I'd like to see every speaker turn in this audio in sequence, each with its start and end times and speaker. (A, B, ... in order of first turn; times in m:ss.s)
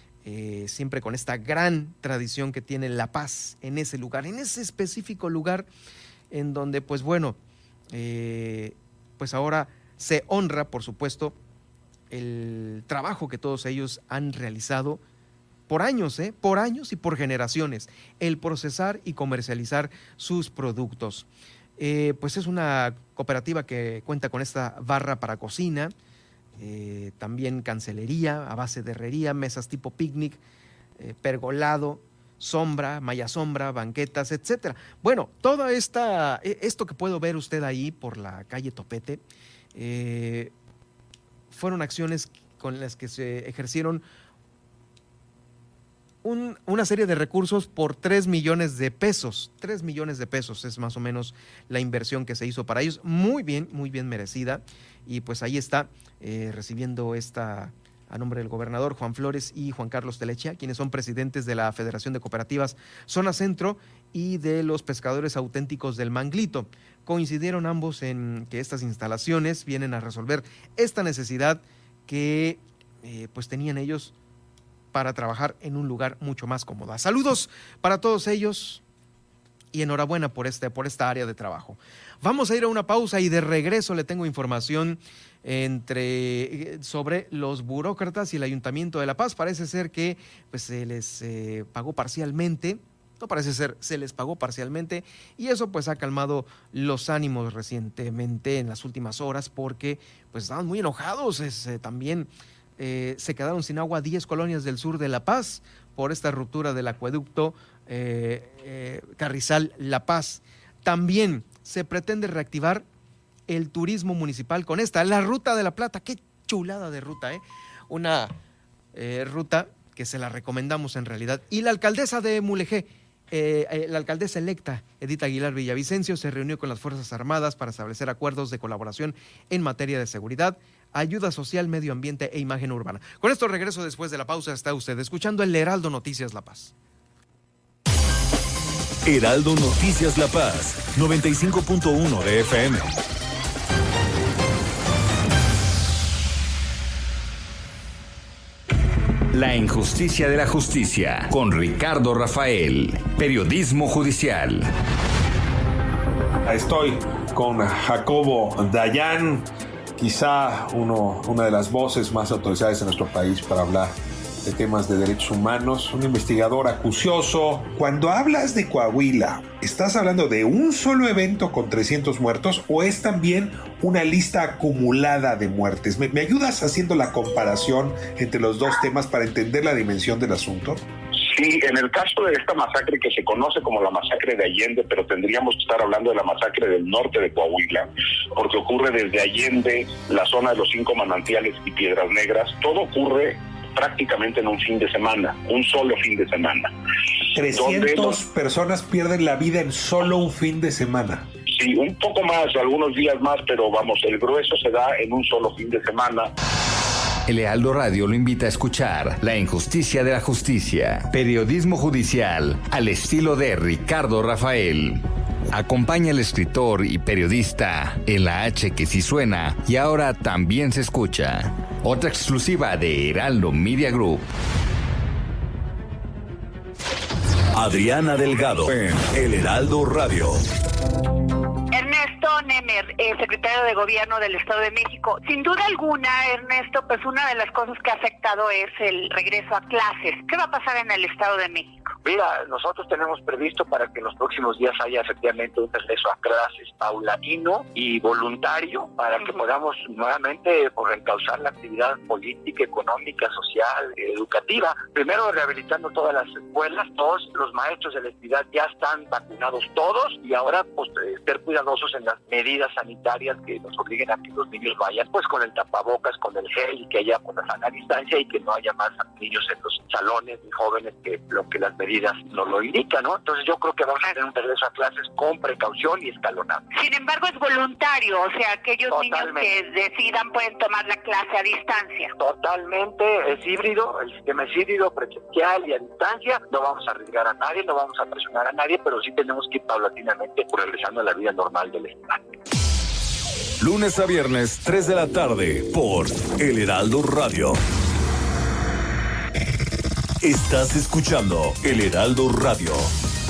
0:00.2-0:05.7 A
0:06.3-0:07.4 A
0:07.9-0:11.4 A
0:12.1-0:15.0 A
0:15.7-0:21.3 A
0:21.8-0:25.9 A
0:26.6-0:30.4 A
0:31.0-0:39.2 A
0:39.8-0:40.5 A
0:41.5-0:44.0 A
0:46.2-1:14.1 A
1:14.9-1:18.8 A
1:19.7-1:52.8 A
1:53.5-1:58.3 A
1:58.9-2:16.7 A
2:19.0-2:23.0 B
2:29.3-2:34.7 C
2:36.4-3:00.8 D
3:01.2-3:16.7 E
3:17.4-3:21.3 D
3:17.5-3:18.2 E
3:21.5-3:26.3 E
3:27.3-3:44.3 C
3:47.5-3:50.4 B
3:51.7-4:01.9 F
4:02.0-4:36.6 G
4:36.7-4:42.1 F
4:38.9-4:39.5 G
4:42.2-4:52.2 G
4:53.6-4:57.6 B
5:00.2-5:02.9 B